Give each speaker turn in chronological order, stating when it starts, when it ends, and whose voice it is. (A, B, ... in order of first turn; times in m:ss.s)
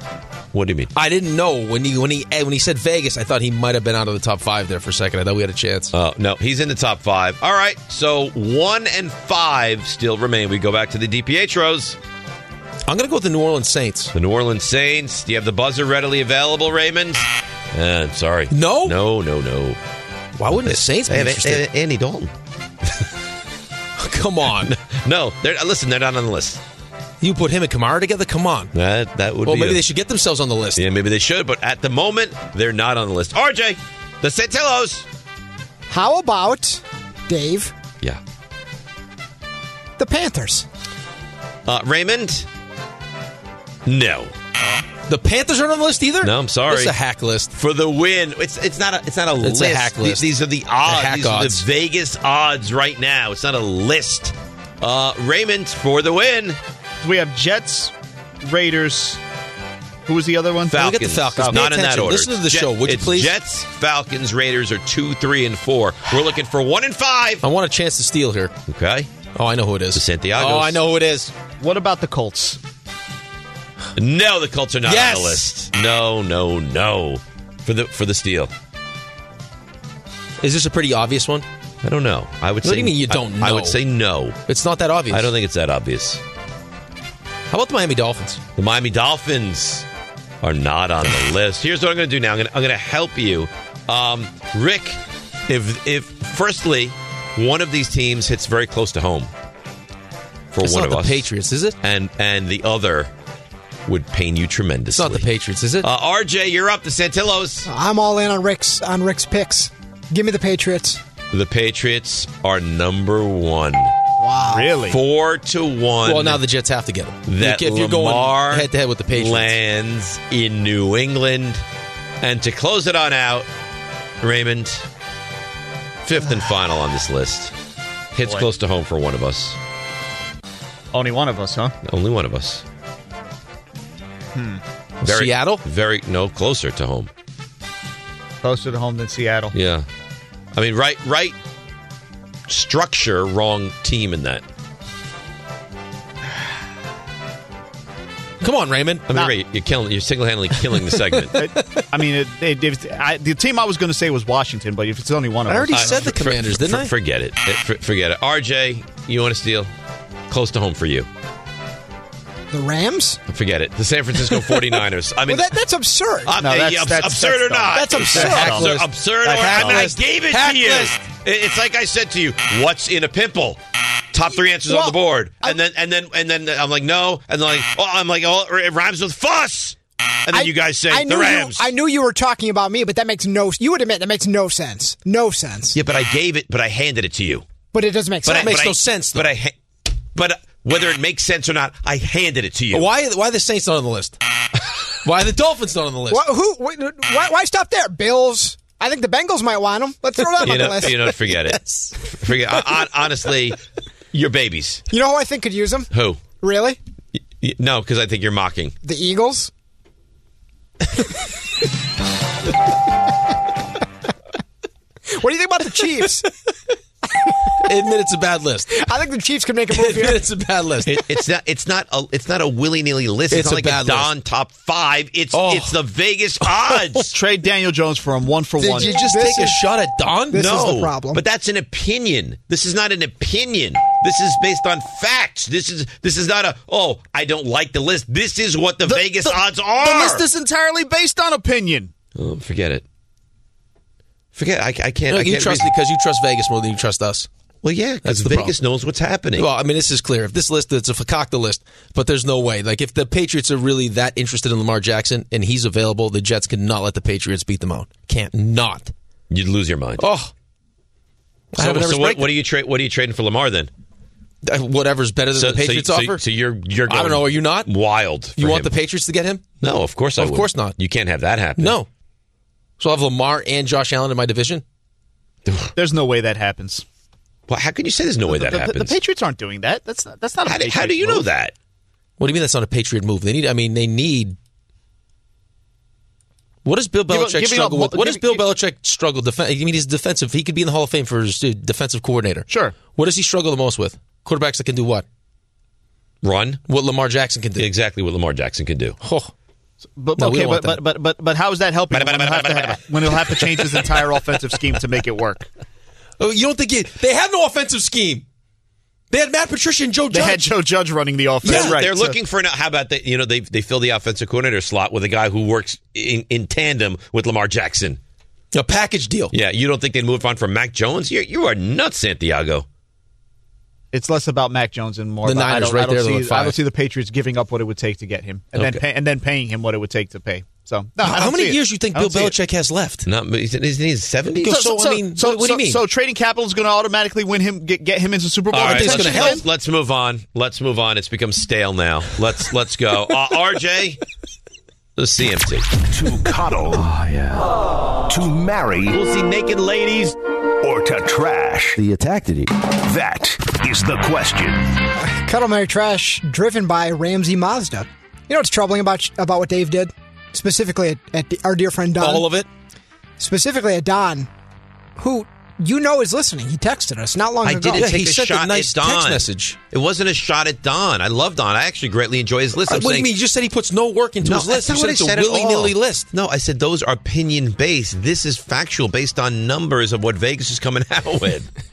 0:00.5-0:00.9 A
0:00.9-0:05.9 B
0:05.9-0:12.0 A
0:12.9-0:14.1 B
0:14.1-0:19.8 A
0:18.5-0:19.0 B
0:20.4-0:21.6 B
0:20.6-0:22.3 A
0:24.0-0:24.7 B
0:24.6-0:26.6 A
0:27.2-0:28.7 B
0:28.7-0:29.8 A
0:29.4-0:30.8 B
0:30.8-0:35.0 A
0:35.9-0:37.7 C
0:40.0-0:40.6 C
0:41.6-0:42.5 A
0:43.8-0:44.3 A
0:45.1-0:47.5 B
0:46.2-0:46.9 A
0:47.5-0:56.6 A
0:49.4-0:50.3 B
0:50.8-0:51.6 B
0:57.0-0:59.2 D
1:00.0-1:01.6 D
1:00.7-1:07.4 A
1:00.7-1:03.3 B
1:07.4-1:08.5 B
1:08.7-1:09.1 A
1:09.3-1:11.3 B
1:09.9-1:10.8 A
1:11.6-1:12.6 D
1:14.0-1:18.5 A
1:14.8-1:15.4 B
1:20.4-1:21.4 B
1:21.8-1:24.4 A
1:22.6-1:23.8 B
1:24.5-1:25.3 B
1:25.1-1:26.2 A
1:27.5-1:28.4 B
1:28.6-1:29.8 A
1:30.4-1:39.3 A
1:40.5-1:41.2 A
1:40.6-1:41.8 B
1:41.8-1:43.1 A
1:43.9-1:45.2 A
1:44.9-1:45.9 B
1:45.8-1:47.7 A
1:47.6-1:51.0 C
1:51.3-1:53.9 A
1:54.2-1:54.8 C
1:54.5-1:55.0 D
1:54.8-1:56.4 A
1:56.0-1:59.5 B
1:57.3-2:01.6 A
2:02.2-2:03.5 A
2:04.2-2:04.8 A
2:06.0-2:07.5 A
2:08.1-2:09.6 A
2:10.9-2:11.7 D
2:11.8-2:12.6 A
2:14.3-2:14.6 D
2:15.0-2:15.6 B
2:15.0-2:17.1 A
2:18.4-2:19.5 D
2:19.5-2:19.8 A
2:20.5-2:21.3 A
2:22.5-2:24.4 A
2:28.4-2:29.1 B
2:29.1-2:31.4 A
2:30.8-2:31.8 B
2:31.4-2:36.0 D
2:35.5-2:36.9 B
2:35.7-2:39.7 A
2:40.3-2:41.1 A
2:42.5-2:43.2 C
2:43.3-2:45.6 A
2:45.3-2:46.4 C
2:46.2-2:53.6 A
2:46.4-2:48.7 D
2:47.7-2:51.0 B
2:49.2-2:49.9 D
2:54.1-3:01.7 A
2:54.6-2:55.6 C
3:00.3-3:05.8 C
3:05.7-3:07.4 A
3:07.7-3:08.6 C
3:08.2-3:09.5 A
3:08.3-3:09.3 B
3:10.1-3:12.9 A
3:12.7-3:14.2 B
3:15.0-3:16.2 B
3:16.1-3:21.2 C
3:20.4-3:23.6 A
3:24.1-3:24.8 A
3:24.9-3:25.9 C
3:25.9-3:26.2 A
3:26.4-3:26.8 C
3:27.4-3:28.7 A
3:28.8-3:29.5 C
3:35.1-3:36.3 C
3:37.6-3:38.8 B
3:38.7-3:40.2 C
3:39.7-3:41.0 B
3:40.9-3:47.1 A
3:43.3-3:44.1 B
3:45.3-3:45.8 B
3:46.4-3:47.1 B
3:47.1-3:48.9 D
3:48.6-3:50.4 B
3:48.6-3:49.6 C
3:50.3-3:51.2 C
3:50.3-4:00.2 A
3:58.8-4:01.9 D
4:02.2-4:02.8 A
4:04.3-4:05.7 A
4:05.1-4:07.3 B
4:07.6-4:09.5 A
4:08.0-4:08.5 B
4:09.4-4:18.9 B
4:19.3-4:20.0 A
4:20.0-4:20.3 B
4:21.5-4:22.3 B
4:21.6-4:23.7 A
4:24.4-4:26.2 B
4:25.4-4:28.7 A
4:26.9-4:27.7 B
4:28.4-4:29.4 B
4:29.6-4:31.8 A
4:30.2-4:30.7 B
4:31.6-4:31.9 B
4:32.8-4:34.6 B
4:35.5-4:35.7 A
4:35.8-4:36.8 D
4:37.5-4:39.0 A
4:38.2-4:41.3 D
4:40.4-4:41.5 A
4:42.2-4:44.4 B
4:46.6-4:55.0 B
4:47.1-4:48.5 D
4:52.5-4:52.8 D
4:56.2-4:56.6 A
4:56.7-4:57.7 B
4:57.6-4:59.0 A
4:59.0-4:59.3 B
5:00.0-5:05.5 D
5:00.2-5:00.8 B
5:01.9-5:03.7 A
5:06.2-5:08.2 B
5:09.1-5:10.5 B
5:10.1-5:12.2 D
5:11.4-5:11.8 B
5:11.4-5:18.0 A
5:18.5-5:19.3 B
5:19.3-5:22.6 A
5:23.9-5:32.4 D
5:25.2-5:26.6 B
5:28.5-5:28.8 A
5:31.0-5:33.1 B
5:33.0-5:34.5 A
5:34.3-5:35.8 B
5:34.4-5:39.4 D
5:38.5-5:44.0 A
5:38.5-5:39.4 B
5:45.0-5:45.7 A
5:45.9-5:46.9 E
5:46.8-5:47.5 A
5:48.1-5:49.0 E
5:48.9-5:50.2 A
5:50.6-5:51.8 E
5:52.6-5:54.8 E
5:55.0-6:02.3 C
6:02.0-6:02.5 B
6:03.2-6:04.3 C
6:05.0-6:07.8 C
6:07.4-6:13.1 A
6:07.7-6:09.6 B
6:12.7-6:16.1 B
6:14.2-6:21.5 A